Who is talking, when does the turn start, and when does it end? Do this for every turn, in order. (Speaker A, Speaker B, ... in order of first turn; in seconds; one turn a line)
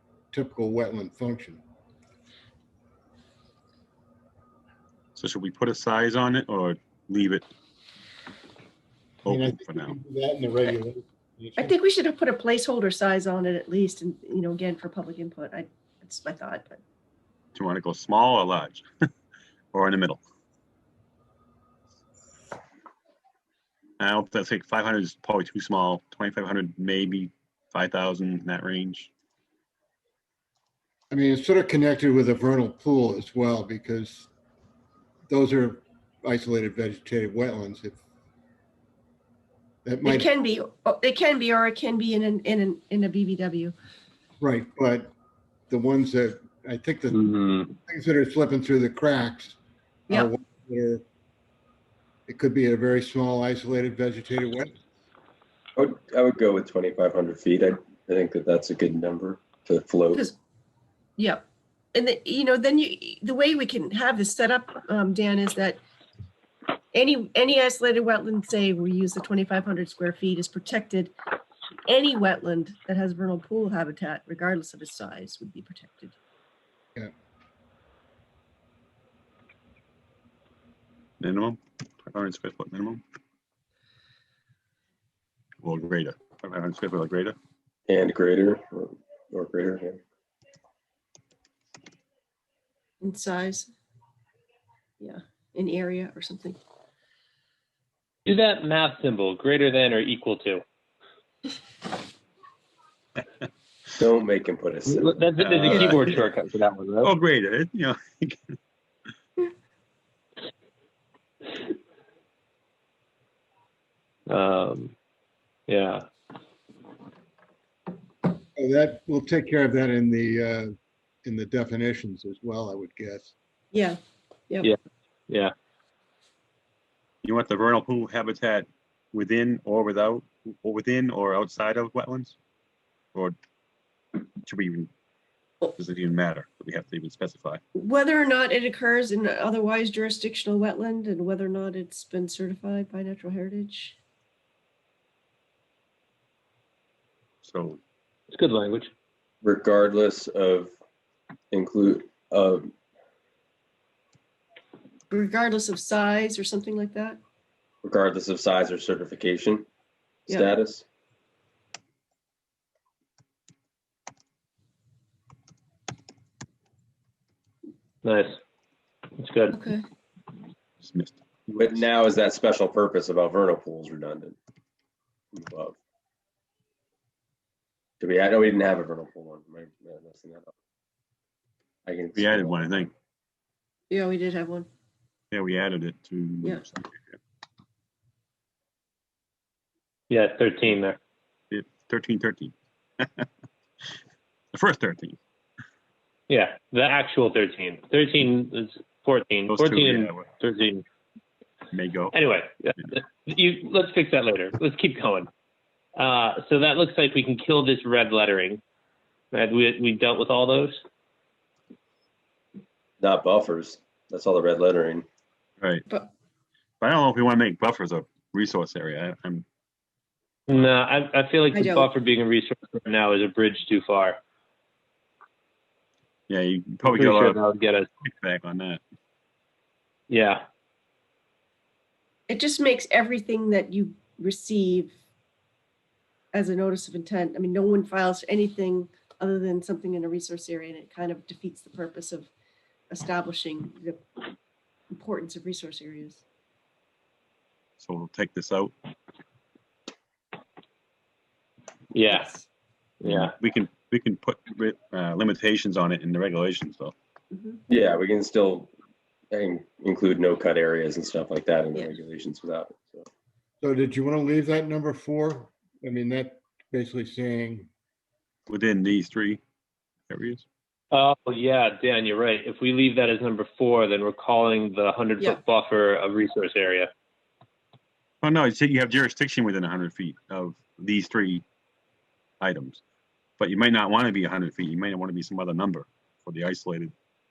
Speaker A: 0.3-1.6
Speaker B: 5.2-7.5
Speaker B: 9.2-10.0
Speaker A: 9.2-11.8
Speaker C: 11.6-16.8
Speaker B: 17.6-18.9
Speaker B: 19.7-20.2
Speaker B: 24.0-29.1
Speaker A: 31.1-34.3
Speaker A: 35.3-38.0
Speaker A: 39.9-40.3
Speaker C: 40.0-43.7
Speaker A: 44.4-45.1
Speaker A: 45.7-49.6
Speaker D: 47.2-47.6
Speaker A: 50.1-51.0
Speaker A: 52.3-54.8
Speaker E: 55.8-60.2
Speaker C: 61.2-65.8
Speaker C: 66.9-71.1
Speaker C: 71.9-76.2
Speaker B: 81.2-83.0
Speaker B: 85.6-87.4
Speaker E: 87.9-90.0
Speaker C: 93.0-93.7
Speaker C: 95.0-96.6
Speaker D: 98.3-100.6
Speaker E: 104.0-105.9
Speaker D: 104.9-107.1
Speaker B: 105.4-106.0
Speaker B: 107.0-108.4
Speaker D: 114.3-114.9
Speaker D: 115.7-116.0
Speaker A: 118.6-123.3
Speaker C: 123.7-124.0
Speaker B: 127.2-132.4
Speaker B: 134.4-134.9
Speaker B: 135.8-137.6
Speaker C: 137.8-144.0
Speaker B: 147.4-147.8
Speaker D: 148.3-148.9
Speaker E: 149.4-150.7
Speaker E: 151.5-152.7
Speaker C: 155.1-157.2
Speaker E: 157.8-159.7
Speaker C: 160.3-160.5
Speaker E: 160.3-160.8
Speaker D: 168.0-168.4
Speaker D: 169.2-169.6
Speaker C: 169.5-169.8
Speaker B: 170.8-171.8
Speaker E: 171.6-174.4
Speaker E: 175.3-175.8
Speaker E: 178.0-180.5
Speaker E: 181.8-182.9
Speaker B: 182.2-182.9
Speaker C: 183.9-184.7
Speaker B: 185.3-187.2
Speaker D: 190.1-191.0
Speaker B: 191.5-193.3
Speaker B: 194.5-195.2
Speaker D: 196.3-200.8
Speaker B: 199.5-200.3
Speaker B: 201.7-202.2
Speaker D: 202.1-205.3
Speaker D: 206.0-208.6
Speaker D: 209.3-210.8
Speaker E: 213.0-215.1
Speaker B: 215.6-215.9
Speaker B: 216.8-219.4
Speaker D: 220.5-224.2
Speaker C: 221.5-221.9
Speaker B: 226.3-227.4
Speaker D: 226.8-227.9
Speaker B: 228.0-228.8
Speaker D: 230.1-230.4
Speaker C: 232.3-234.9
Speaker C: 236.3-242.3
Speaker C: 242.9-244.0
Speaker C: 244.9-246.2
Speaker B: 247.8-248.7
Speaker D: 251.9-252.3
Speaker C: 252.1-252.4
Speaker D: 253.0-253.3
Speaker B: 253.0-256.9
Speaker C: 257.3-257.6
Speaker E: 257.7-258.7
Speaker E: 259.3-263.1
Speaker A: 263.6-267.7
Speaker B: 268.5-269.4
Speaker B: 270.1-270.4
Speaker D: 270.9-276.9
Speaker B: 278.2-281.4
Speaker B: 282.4-282.8
Speaker B: 283.4-286.9